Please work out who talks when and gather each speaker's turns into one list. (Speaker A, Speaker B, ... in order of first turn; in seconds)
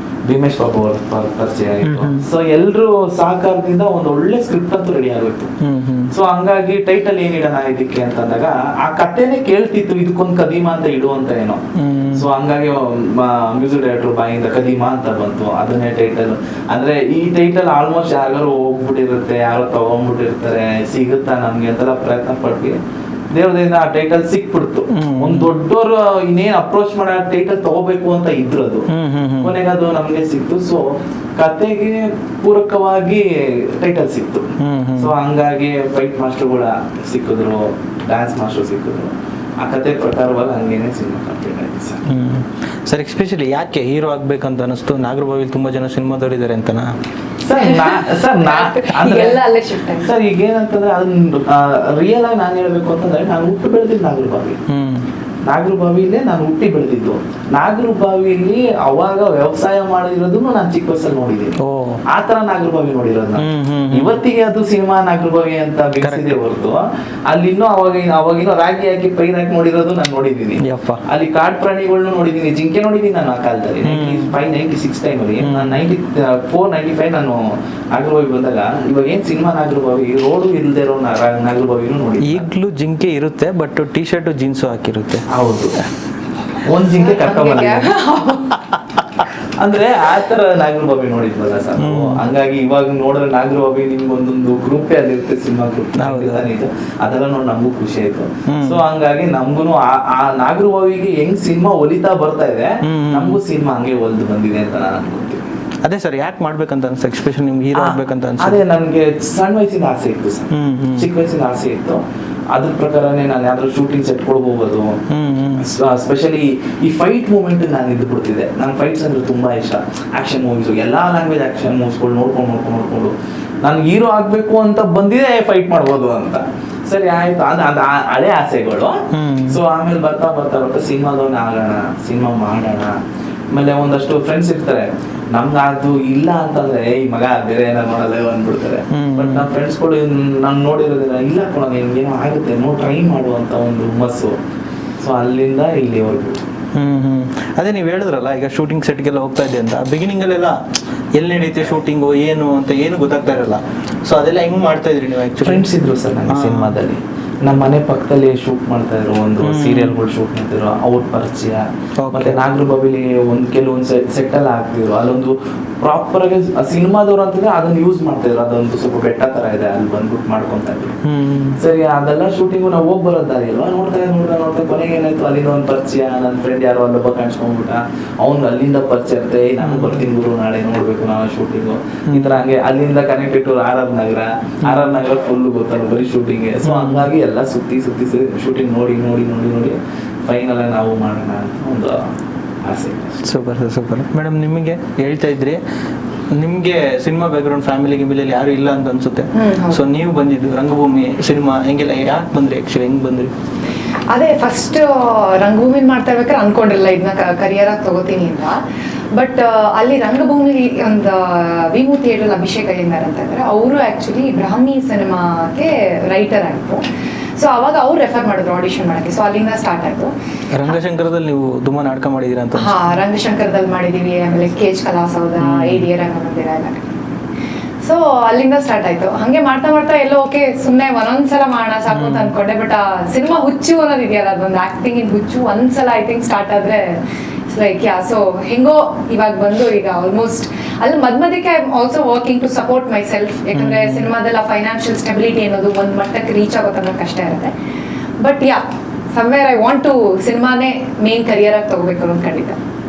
Speaker A: 0.3-5.5, 6.1-11.6, 12.1-22.8, 23.3-28.9, 29.4-34.5, 35.0-42.0, 47.4-49.4, 50.0-54.6, 55.5-61.6, 62.1-77.4, 77.9-82.5, 85.3-85.8, 86.6-87.9, 89.6-105.4, 107.7-112.0, 112.5-115.0, 115.6-129.0, 129.5-132.9, 133.5-144.4, 145.0-146.4, 155.4-171.0, 171.6-192.0, 192.7-193.2
Speaker B: 1.8-2.3, 5.6-6.1, 11.8-12.3, 24.9-25.5, 28.9-29.6, 34.6-35.1, 42.1-46.9, 54.7-55.0, 61.6-62.0, 63.4-64.2, 66.0-66.3, 70.6-71.0, 73.8-74.3, 75.4-75.8, 82.2-85.3, 91.8-92.2, 96.0-96.5, 98.5-98.8, 102.8-103.4, 105.8-108.6, 110.5-111.1, 115.1-115.7, 129.1-129.6, 138.9-139.5, 146.8-150.6, 151.2-155.7, 156.3-156.8, 159.4-159.9, 162.0-162.4, 171.0-171.6, 179.6-180.0, 182.1-182.4, 186.6-187.1, 193.2-195.6, 196.3-203.3, 220.5-222.9, 225.4-225.9, 231.9-232.3, 243.5-244.1
Speaker C: 47.6-50.1, 86.9-88.6, 199.3-199.9, 204.1-208.6, 209.1-216.8, 217.4-220.1, 222.6-226.8, 227.8-247.5, 248.2-248.6, 249.1-252.6